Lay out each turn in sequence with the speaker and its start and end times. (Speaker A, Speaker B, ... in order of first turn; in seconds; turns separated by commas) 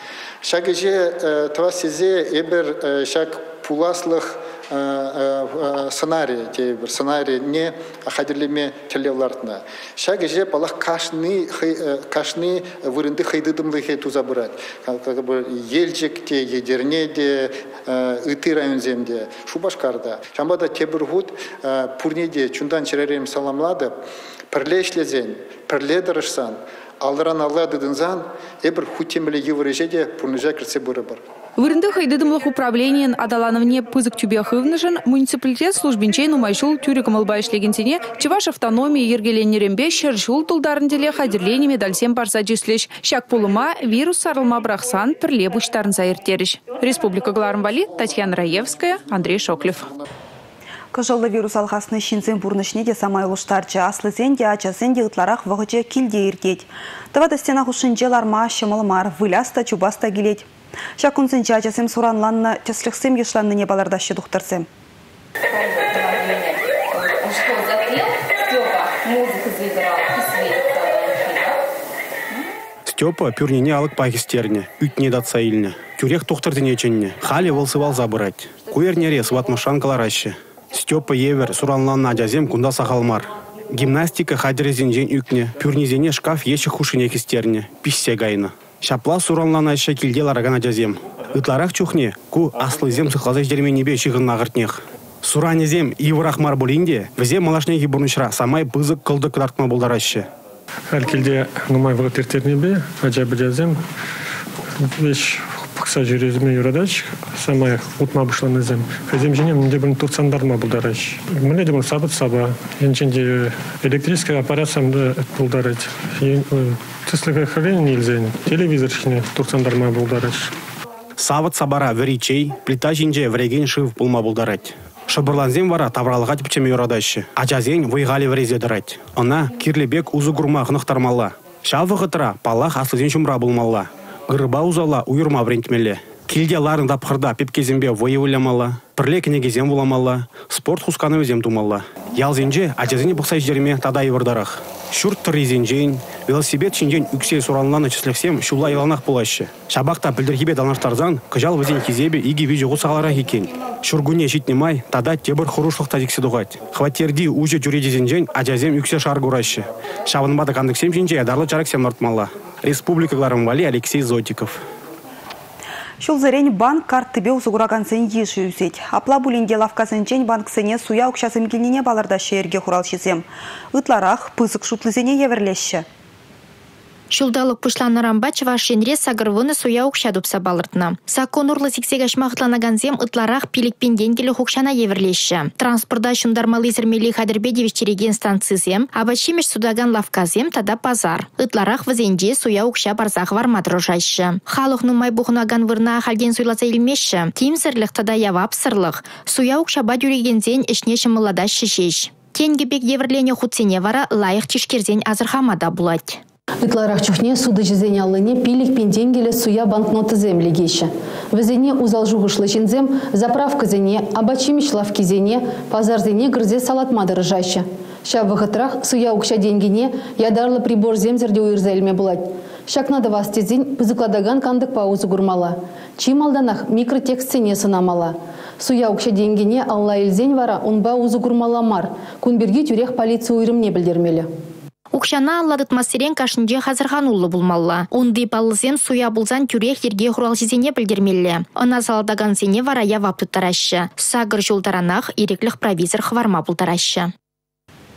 Speaker A: 0.4-23.9, Speaker A: 24.5-31.2, Speaker B: 31.6-49.9, Speaker C: 50.9-64.7, Speaker D: 72.8-100.3, Speaker E: 100.9-103.8, Speaker E: 104.8-120.5, Speaker D: 121.2-164.6, Speaker C: 166.0-175.8, Speaker F: 177.1-206.2, Speaker G: 206.6-234.3, Speaker F: 234.9-247.1